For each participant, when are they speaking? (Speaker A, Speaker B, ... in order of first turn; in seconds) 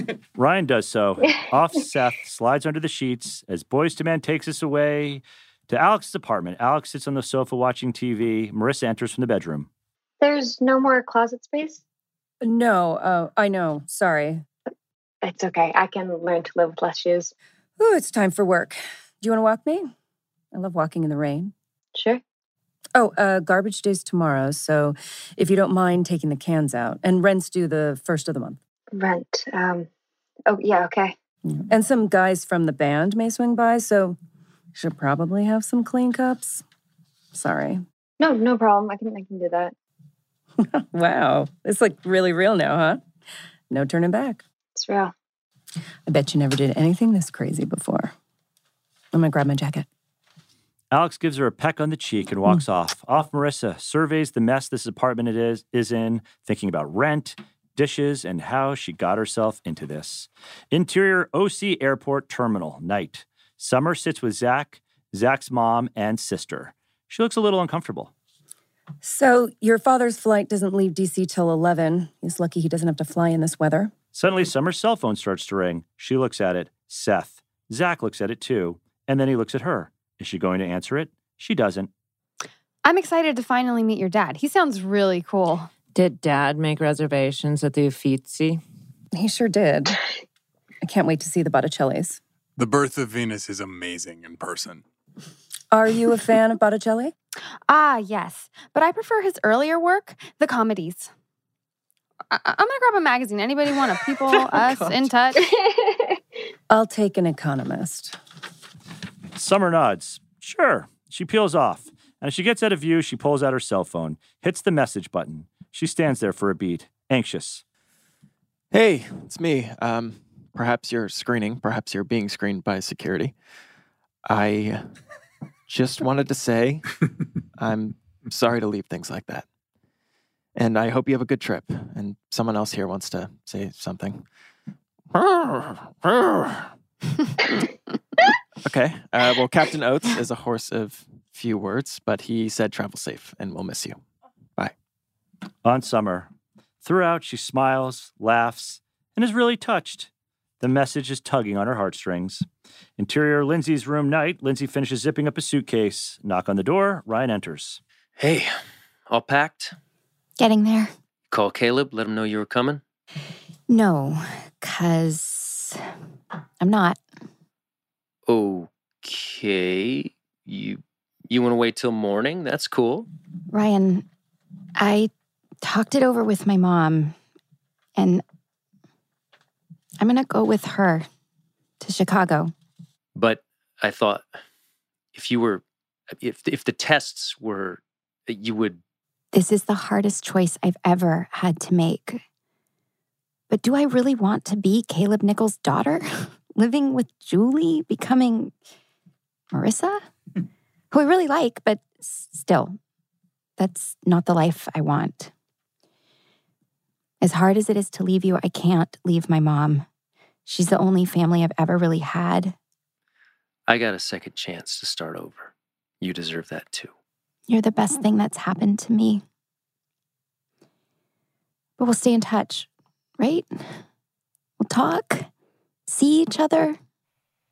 Speaker A: 0.4-9.7, 50.9-68.1, 74.1-81.9, 109.4-117.6, 145.7-146.3, 146.8-152.5, 153.0-157.8
Speaker B: 10.2-11.8, 15.2-17.3, 21.9-22.2, 28.9-29.9, 30.5-31.1, 38.2-39.7, 44.8-45.1, 105.4-106.0
Speaker C: 12.4-14.4, 17.8-19.9, 20.5-21.5, 22.9-28.6, 31.5-34.2, 34.8-36.6, 37.3-37.8, 40.6-43.0, 43.7-44.4, 46.1-48.1, 49.1-49.9, 69.0-73.9, 89.1-90.0, 90.8-92.2, 95.7-97.1, 106.7-108.2
Speaker D: 82.8-85.7, 97.7-101.1, 102.3-105.4
Speaker E: 85.9-88.6
Speaker F: 92.6-94.8
Speaker G: 118.7-123.3, 124.3-124.9, 125.7-127.0, 127.6-129.5, 130.6-134.2, 135.1-136.7, 138.6-144.0
Speaker H: 158.2-158.5, 159.1-159.8, 161.3-162.8, 168.3-173.1, 183.2-184.3, 185.1-188.8, 213.7-216.9
Speaker I: 160.4-160.9, 163.7-165.8, 166.6-167.0, 173.5-174.1, 174.8-175.1, 175.6-177.2, 178.0-178.2, 180.0-181.1, 181.8-182.5, 189.3-192.2, 193.5-198.5, 199.5-200.0, 200.9-202.8, 203.6-205.3, 207.2-209.9, 210.5-212.6, 217.5-219.2, 221.8-223.6, 224.6-225.3, 225.9-226.8